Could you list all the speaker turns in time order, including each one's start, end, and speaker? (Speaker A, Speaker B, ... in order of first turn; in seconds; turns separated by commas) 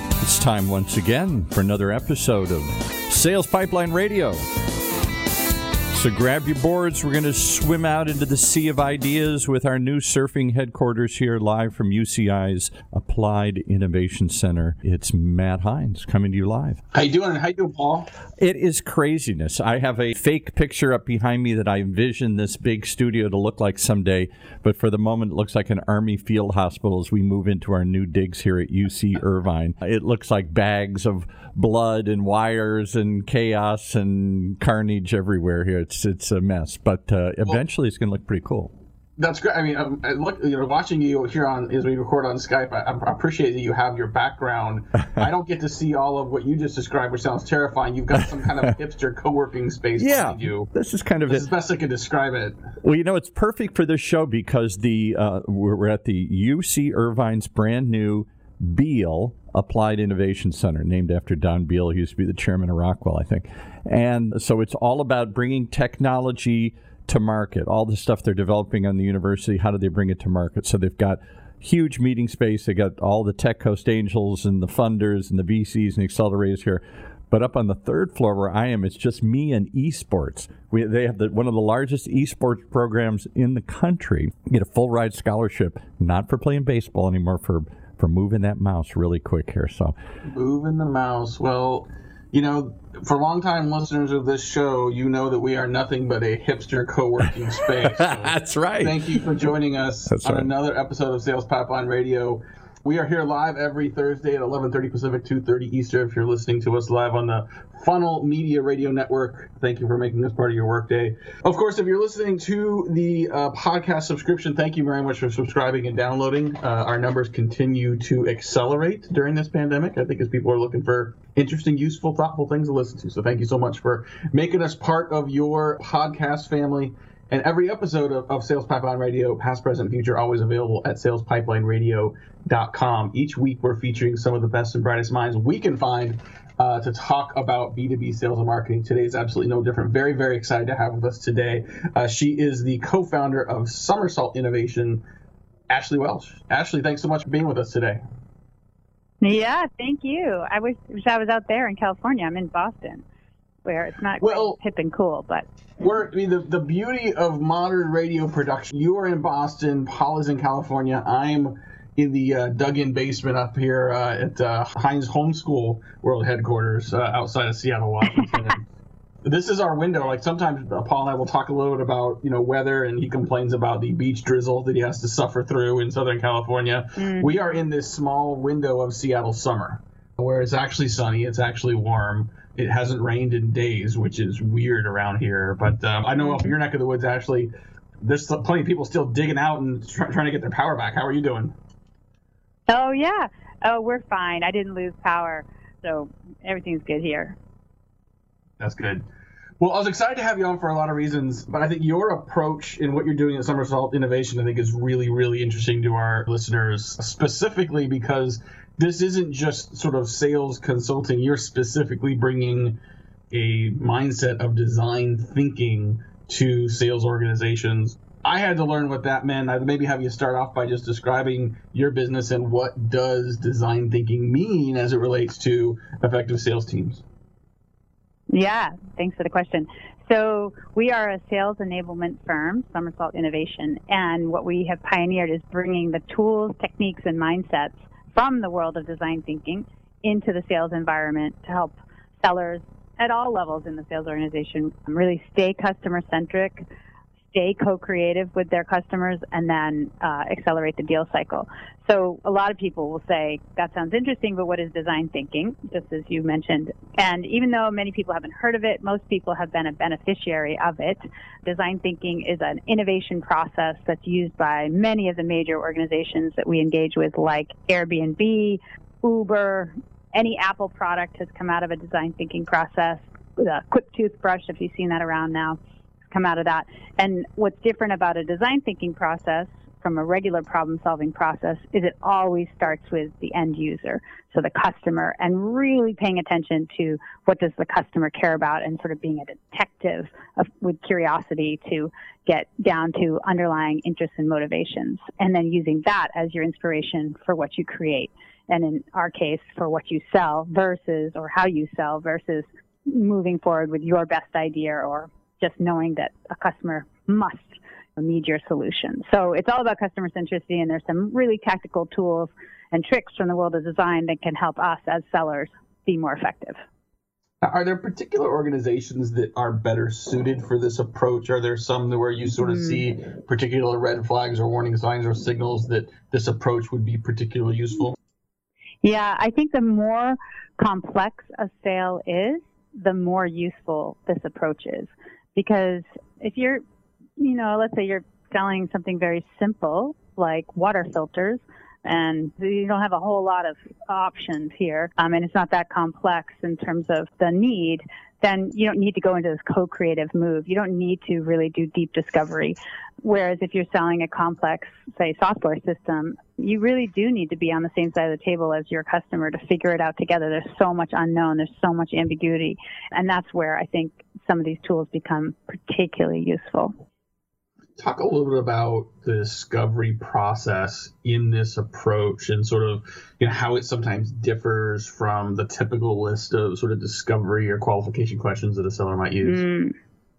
Speaker A: 0.2-4.4, Speaker A: 5.9-16.8, Speaker B: 16.9-18.1, Speaker A: 18.4-38.7, Speaker B: 39.2-50.7, Speaker A: 50.0-51.5, Speaker B: 51.3-52.6, Speaker A: 52.8-90.0, Speaker B: 90.3-145.0, Speaker A: 97.8-99.2, Speaker A: 100.1-100.5, Speaker B: 145.7-148.0, Speaker C: 149.2-153.1, Speaker C: 153.7-155.5, Speaker B: 154.2-154.6, Speaker B: 155.8-168.7, Speaker B: 169.2-191.6, Speaker C: 177.0-177.4, Speaker C: 186.2-186.5, Speaker C: 192.7-197.4, Speaker B: 198.6-199.1, Speaker B: 199.6-212.8, Speaker B: 213.3-227.0, Speaker C: 228.3-246.6, Speaker C: 247.3-275.6, Speaker C: 276.1-316.6, Speaker B: 317.4-328.0, Speaker C: 322.4-322.8, Speaker C: 328.8-336.6, Speaker C: 337.2-366.7, Speaker B: 367.8-379.4, Speaker C: 379.2-379.8